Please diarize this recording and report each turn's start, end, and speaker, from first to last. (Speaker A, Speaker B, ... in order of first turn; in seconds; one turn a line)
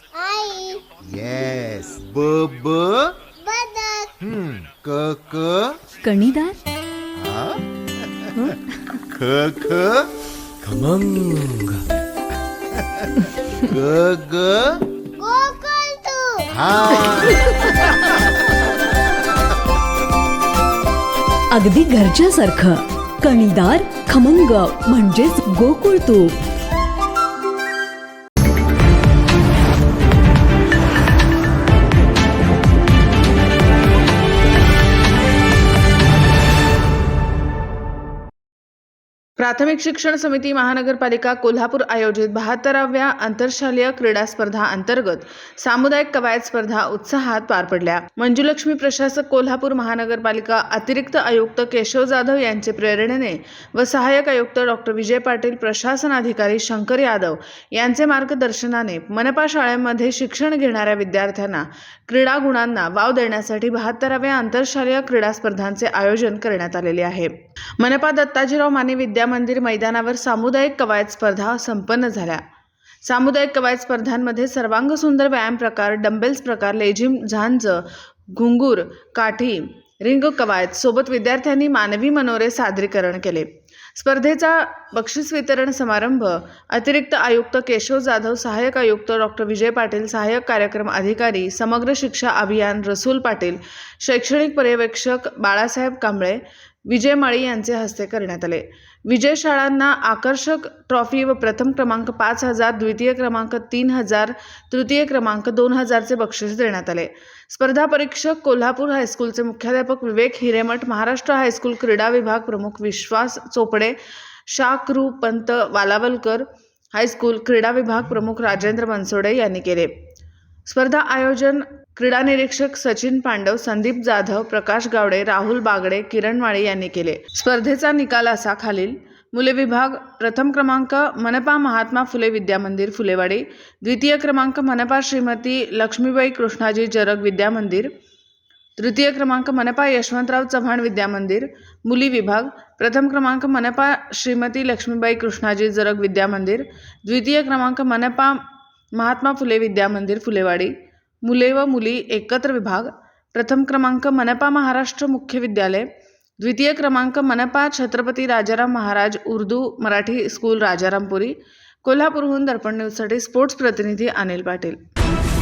Speaker A: 0.1-0.8
Speaker B: 1.0-3.1
Speaker A: 3.4-4.1
Speaker B: 4.2-5.8
Speaker C: 6.0-6.6
Speaker B: 7.2-7.6
Speaker B: 8.1-8.5
Speaker B: 9.1-10.1
Speaker B: 10.6-11.8
Speaker B: 12.8-13.1
Speaker B: 13.6-14.8
Speaker A: 15.2-16.5
Speaker B: 16.5-18.1
Speaker C: 21.5-26.3
Speaker D: 39.4-72.4
Speaker D: 73.0-114.0
Speaker D: 114.5-119.9
Speaker D: 120.7-137.9
Speaker D: 138.8-148.4
Speaker D: 149.0-150.7
Speaker D: 151.2-155.9
Speaker D: 156.4-164.8